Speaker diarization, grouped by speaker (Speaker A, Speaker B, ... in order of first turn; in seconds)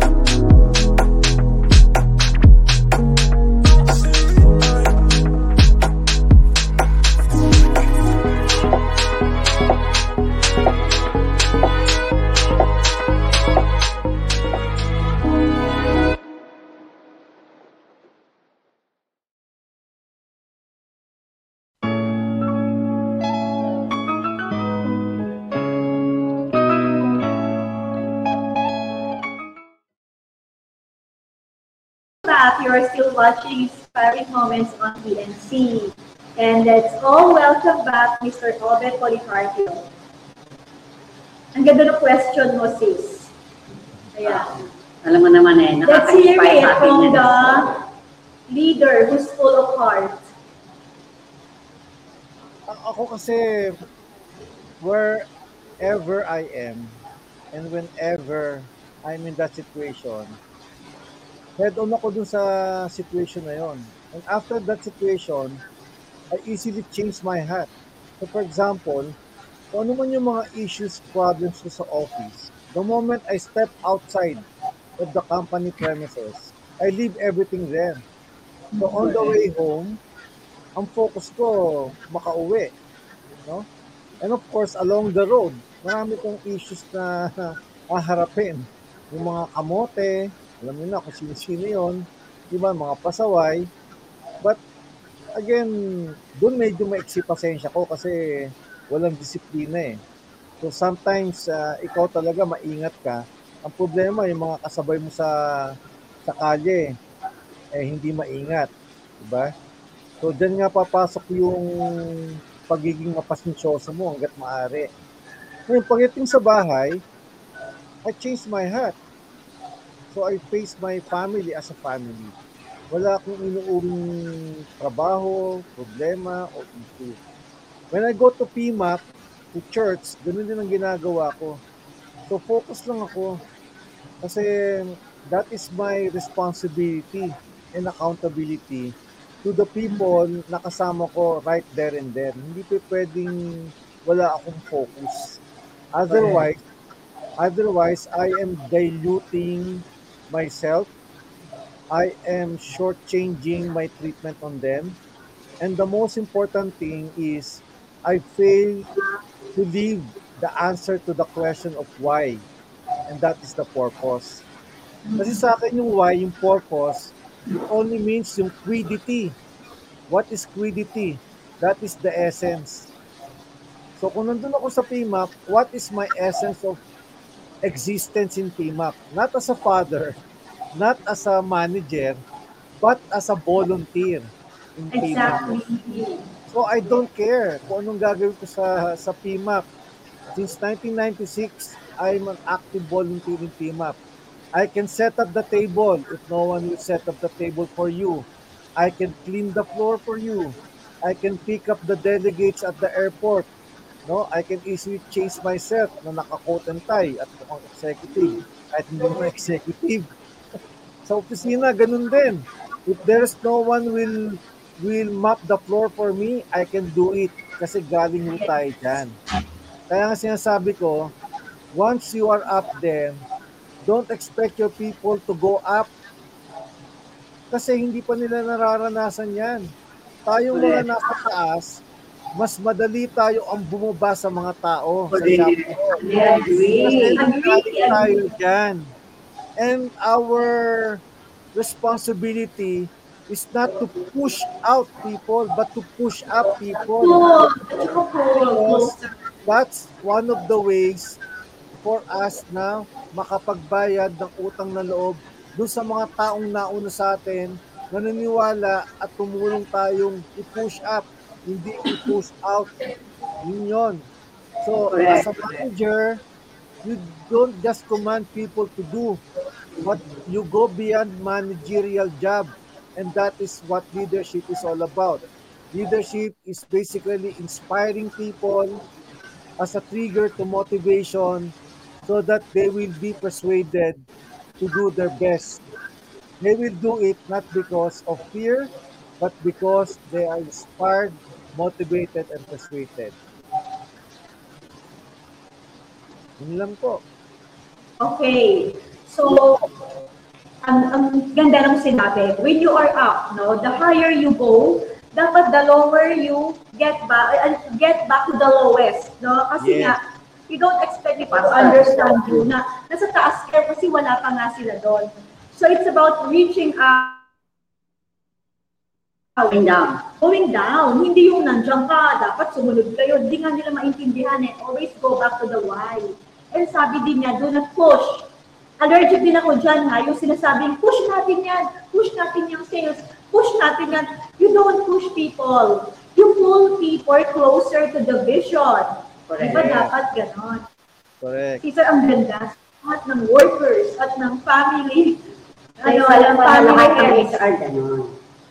Speaker A: 32.2-39.9, 41.5-43.3, 44.1-44.5, 45.9-47.7, 48.5-50.3, 78.7-79.4, 165.1-165.4, 184.9-186.3, 236.0-238.3, 247.0-249.1, 298.0-299.6, 300.6-317.2, 319.4-319.6, 320.2-328.3, 328.8-340.6, 341.6-345.2, 345.8-347.4
Speaker B: 44.2-47.7, 146.1-146.4, 230.5-230.9, 235.1-237.2, 264.9-265.6, 311.3-312.5, 319.5-320.0, 339.3-339.7, 345.8-348.2
Speaker C: 52.7-53.8, 54.8-55.2, 55.8-56.9, 57.5-60.4, 61.6-65.6, 66.3-67.7, 68.2-69.1, 69.7-74.5, 75.0-78.0, 78.8-80.0, 80.8-82.7, 84.2-93.7, 95.4-95.7, 96.4-98.2, 98.9-100.0, 100.6-105.3, 106.2-106.9, 107.7-109.5, 110.2-114.9, 115.7-117.0, 118.0-119.0, 120.1-122.3, 122.9-127.2, 127.9-129.0, 129.5-131.6, 132.3-133.4, 134.2-138.9, 139.4-145.4, 145.9-146.6, 147.4-150.9, 151.9-155.0, 155.6-158.9, 159.5-162.4, 163.1-164.4, 165.2-167.1, 167.7-169.3, 170.1-172.9, 174.0-176.8, 177.6-180.2, 180.8-182.2, 182.8-185.6, 186.5-189.7, 190.3-194.0, 194.5-198.2, 198.8-203.5, 204.1-210.1, 211.1-219.1, 219.9-221.1, 221.7-223.2, 223.8-225.9, 227.5-229.7, 230.3-231.8, 232.4-238.9, 239.6-241.0, 241.5-247.3, 248.3-251.2, 251.8-262.7, 263.4-264.1, 264.6-266.2, 266.8-269.2, 269.8-278.8, 279.6-281.5, 282.0-284.0, 284.6-285.6, 286.4-293.1, 296.4-297.0, 309.6-310.0, 339.4-339.9, 341.2-341.6